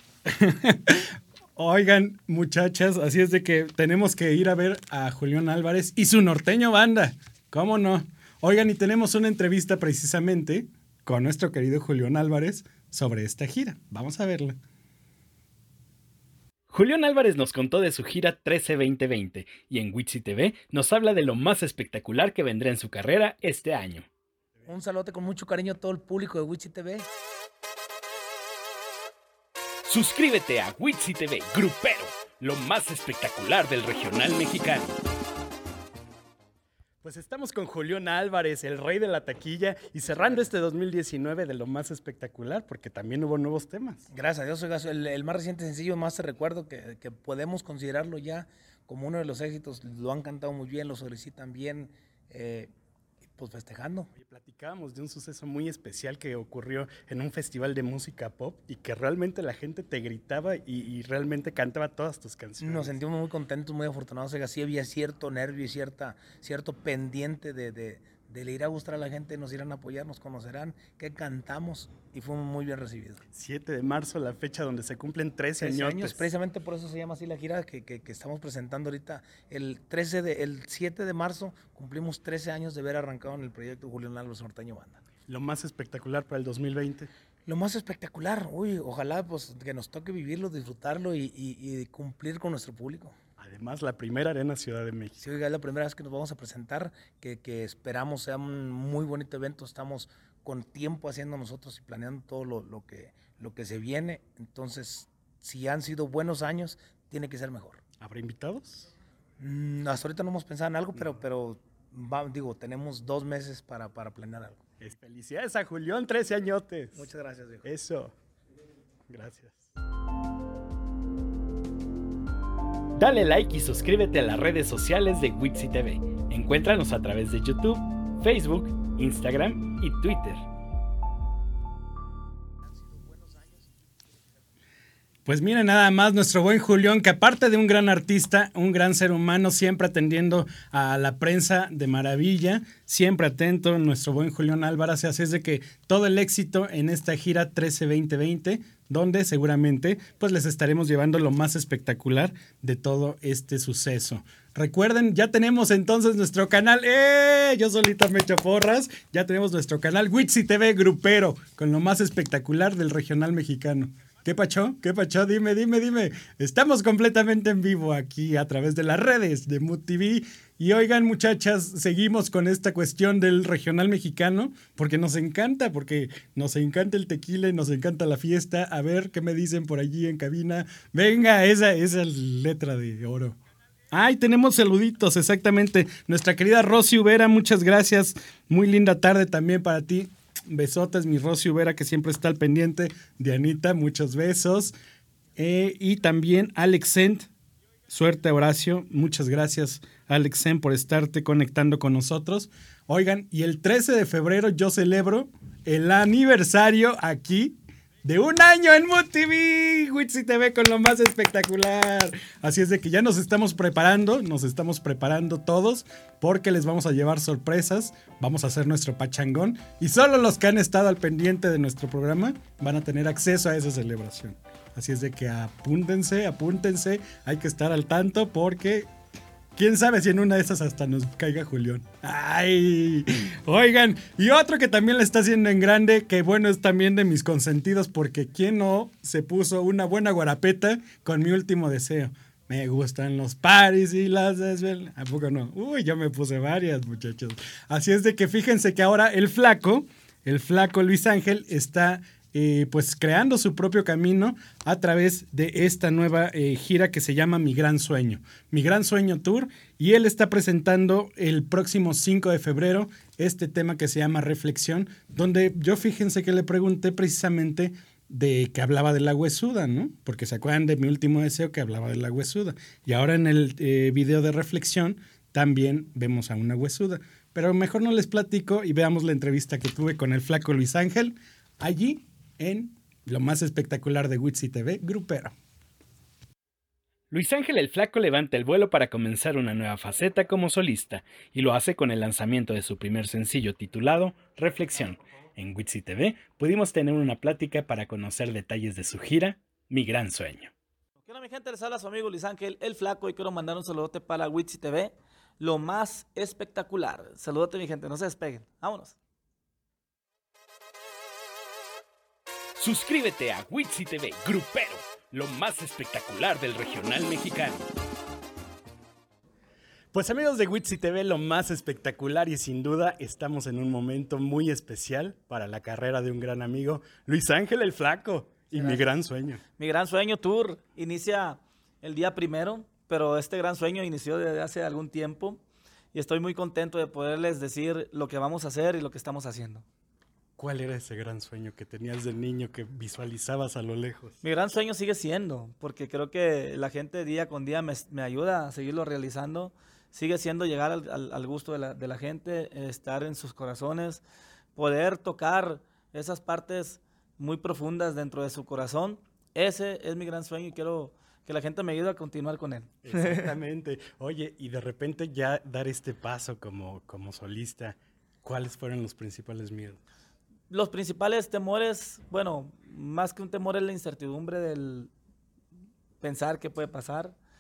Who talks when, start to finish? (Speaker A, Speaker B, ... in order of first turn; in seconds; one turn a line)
Speaker A: 0.3-14.6
Speaker A: 16.7-24.1
Speaker B: 24.6-27.1
Speaker A: 29.9-35.0
Speaker A: 37.0-44.0
Speaker B: 44.1-52.7
Speaker B: 53.3-54.1
Speaker A: 54.1-63.0
Speaker B: 62.6-73.2
Speaker A: 73.3-76.2
Speaker B: 75.6-85.0
Speaker A: 85.3-87.1
Speaker B: 87.5-93.2
Speaker A: 93.4-95.2
Speaker B: 95.2-107.8
Speaker A: 108.0-108.9
Speaker B: 109.4-114.6
Speaker A: 114.8-117.0
Speaker B: 117.0-117.6
Speaker A: 117.6-118.1
Speaker A: 119.1-119.7
Speaker A: 123.0-130.4
Speaker B: 132.7-133.7
Speaker A: 135.3-183.4
Speaker A: 183.9-194.7
Speaker A: 195.4-197.3
Speaker A: 197.9-228.9
Speaker A: 229.6-285.3
Speaker A: 287.1-300.5
Speaker C: 301.0-308.9
Speaker A: 312.6-317.6
Speaker A: 319.9-329.4
Speaker C: 329.6-335.4
Speaker C: 335.9-339.6
Speaker A: 340.4-344.2
Speaker C: 344.2-354.0
Speaker C: 354.6-362.7
Speaker A: 362.9-369.8
Speaker C: 370.5-374.9
Speaker C: 376.0-377.1